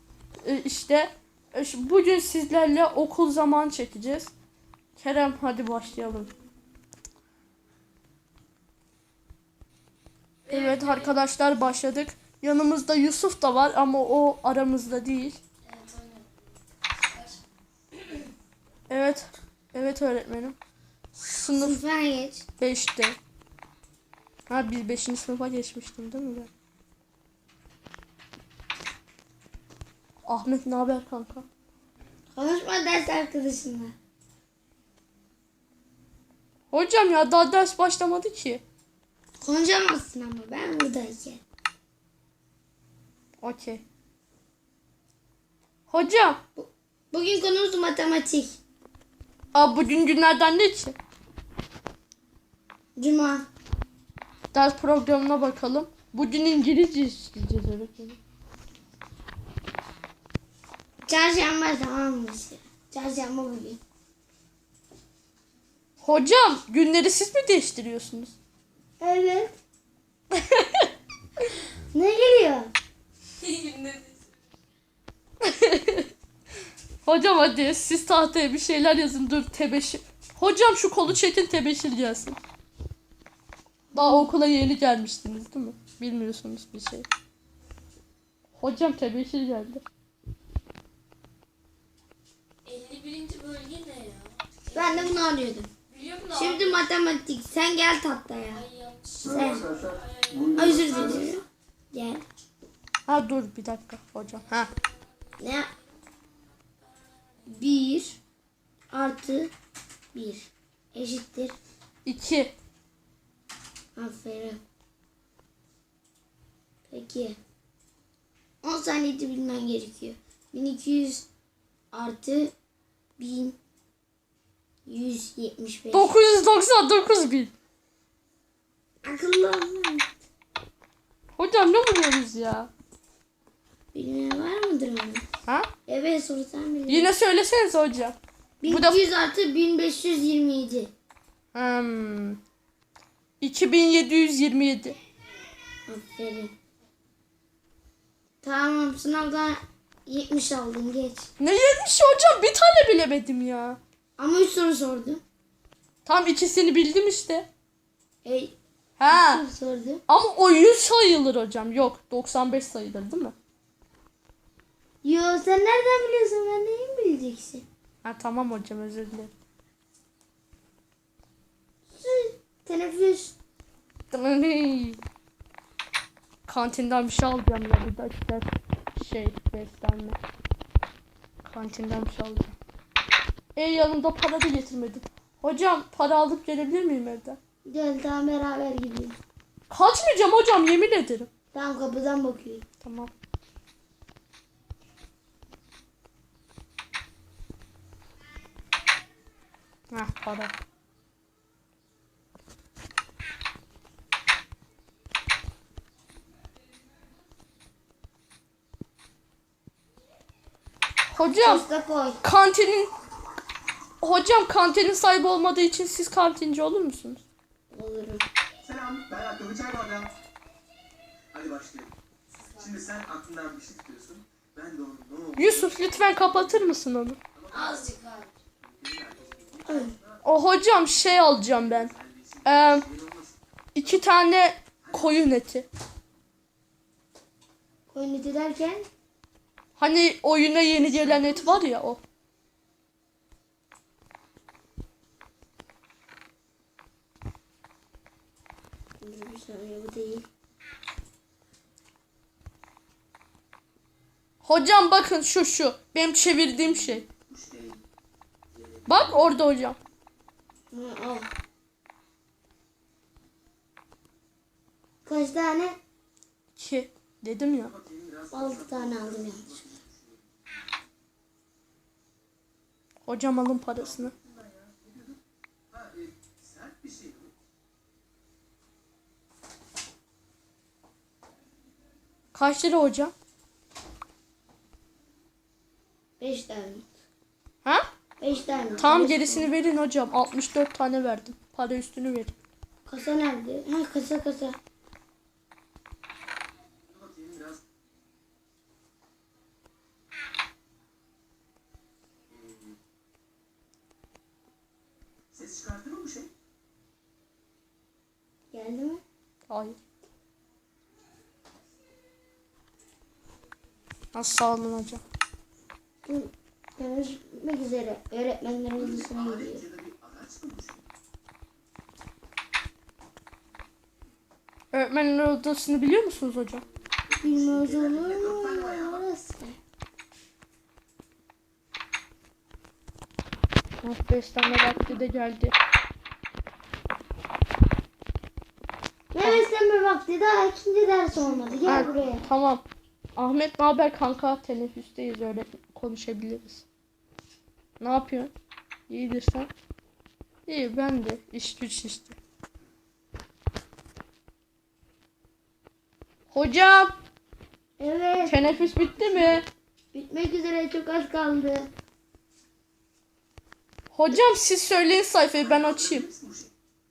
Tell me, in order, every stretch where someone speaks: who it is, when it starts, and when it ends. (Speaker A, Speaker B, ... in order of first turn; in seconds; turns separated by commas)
Speaker A: 0.4-4.3, Speaker A: 5.0-6.3, Speaker B: 10.4-11.2, Speaker A: 10.5-15.4, Speaker B: 15.7-17.4, Speaker B: 17.9-18.3, Speaker A: 18.9-20.6, Speaker A: 21.1-21.8, Speaker C: 21.6-22.4, Speaker A: 22.6-23.2, Speaker A: 24.5-26.5, Speaker A: 30.3-31.5, Speaker C: 32.4-33.9, Speaker A: 36.7-38.6, Speaker C: 39.4-41.4, Speaker A: 43.4-43.8, Speaker A: 45.9-46.4, Speaker C: 46.6-48.6, Speaker A: 49.5-51.0, Speaker C: 53.0-53.5, Speaker A: 54.5-58.2, Speaker C: 61.1-63.8, Speaker A: 66.0-68.3, Speaker C: 69.0-69.5, Speaker A: 70.3-70.9, Speaker C: 71.9-72.7, Speaker B: 73.4-74.3, Speaker A: 75.4-76.1, Speaker A: 77.0-82.4, Speaker C: 83.9-84.2, Speaker A: 83.9-87.1, Speaker A: 88.5-89.8, Speaker B: 92.7-95.2, Speaker C: 94.7-95.7, Speaker B: 95.9-96.9, Speaker C: 96.3-98.6, Speaker B: 98.5-101.5, Speaker D: 99.2-101.4, Speaker C: 99.3-99.7, Speaker C: 100.5-102.2, Speaker A: 103.1-104.7, Speaker B: 104.5-105.9, Speaker C: 105.4-105.7, Speaker B: 106.8-107.8, Speaker C: 107.5-108.2, Speaker C: 108.9-109.5, Speaker C: 110.1-111.6, Speaker A: 112.0-112.5, Speaker C: 114.0-114.6, Speaker C: 116.9-117.4, Speaker C: 118.6-121.3, Speaker C: 121.9-122.5, Speaker C: 123.2-123.6, Speaker C: 124.9-126.1, Speaker A: 125.9-127.5, Speaker C: 129.0-130.1, Speaker A: 131.4-132.7, Speaker C: 133.9-135.2, Speaker C: 135.9-137.1, Speaker A: 136.9-138.2, Speaker C: 138.6-140.9, Speaker A: 138.7-139.0, Speaker A: 141.5-142.4, Speaker A: 143.4-145.0, Speaker C: 145.9-146.5, Speaker C: 148.4-151.3, Speaker A: 151.4-153.8, Speaker C: 154.2-155.2, Speaker A: 156.1-157.5, Speaker C: 158.2-158.6, Speaker A: 159.0-159.4, Speaker C: 159.1-160.0, Speaker A: 160.1-163.3, Speaker C: 165.0-167.6, Speaker A: 168.0-169.3, Speaker C: 171.9-173.3, Speaker A: 174.1-175.0, Speaker A: 176.5-180.2, Speaker A: 181.4-182.6, Speaker A: 183.6-187.4, Speaker C: 187.7-189.2, Speaker A: 189.7-191.3, Speaker C: 191.5-192.6, Speaker A: 192.8-193.1, Speaker A: 199.9-200.5, Speaker A: 211.1-211.7, Speaker C: 211.4-212.2, Speaker A: 212.2-212.9, Speaker A: 214.0-217.2, Speaker C: 217.7-218.2, Speaker D: 218.6-220.1, Speaker D: 221.3-221.9, Speaker B: 222.3-222.8, Speaker D: 222.6-226.8, Speaker A: 225.4-227.2, Speaker D: 227.3-227.9, Speaker B: 227.5-228.3, Speaker D: 228.6-230.3, Speaker C: 229.7-229.9, Speaker A: 230.2-231.9, Speaker D: 230.8-234.1, Speaker A: 232.4-232.9, Speaker A: 233.8-235.7, Speaker D: 234.8-235.3, Speaker C: 237.9-238.9, Speaker A: 239.8-242.0, Speaker D: 240.7-241.7, Speaker C: 249.0-250.3, Speaker A: 254.4-257.1, Speaker D: 257.2-257.8, Speaker D: 258.5-259.4, Speaker A: 258.9-259.8, Speaker C: 260.7-261.3, Speaker C: 265.1-265.8, Speaker A: 266.6-267.7, Speaker D: 267.6-270.2, Speaker C: 268.3-269.6, Speaker A: 273.1-274.1, Speaker D: 273.7-275.2, Speaker D: 275.7-277.3, Speaker A: 282.3-283.1, Speaker C: 286.2-286.9, Speaker C: 288.2-289.5, Speaker D: 288.3-289.5, Speaker A: 288.8-292.3, Speaker C: 292.9-294.6, Speaker D: 296.9-297.6, Speaker D: 302.3-302.8, Speaker D: 305.3-306.3, Speaker C: 308.5-309.0, Speaker A: 309.5-309.8, Speaker A: 314.1-315.0, Speaker C: 316.1-319.6, Speaker D: 318.7-320.9, Speaker A: 324.7-326.6, Speaker D: 326.2-329.1, Speaker C: 327.2-329.6, Speaker A: 333.8-335.5, Speaker C: 339.1-342.2, Speaker D: 341.1-342.2, Speaker A: 341.7-342.6, Speaker A: 343.2-346.6, Speaker A: 347.8-348.3, Speaker A: 348.9-349.5, Speaker A: 350.5-352.2, Speaker A: 356.3-356.9, Speaker C: 357.8-358.5, Speaker A: 358.2-359.5, Speaker D: 358.4-359.5, Speaker C: 359.9-361.7, Speaker A: 363.9-366.1, Speaker D: 365.4-366.5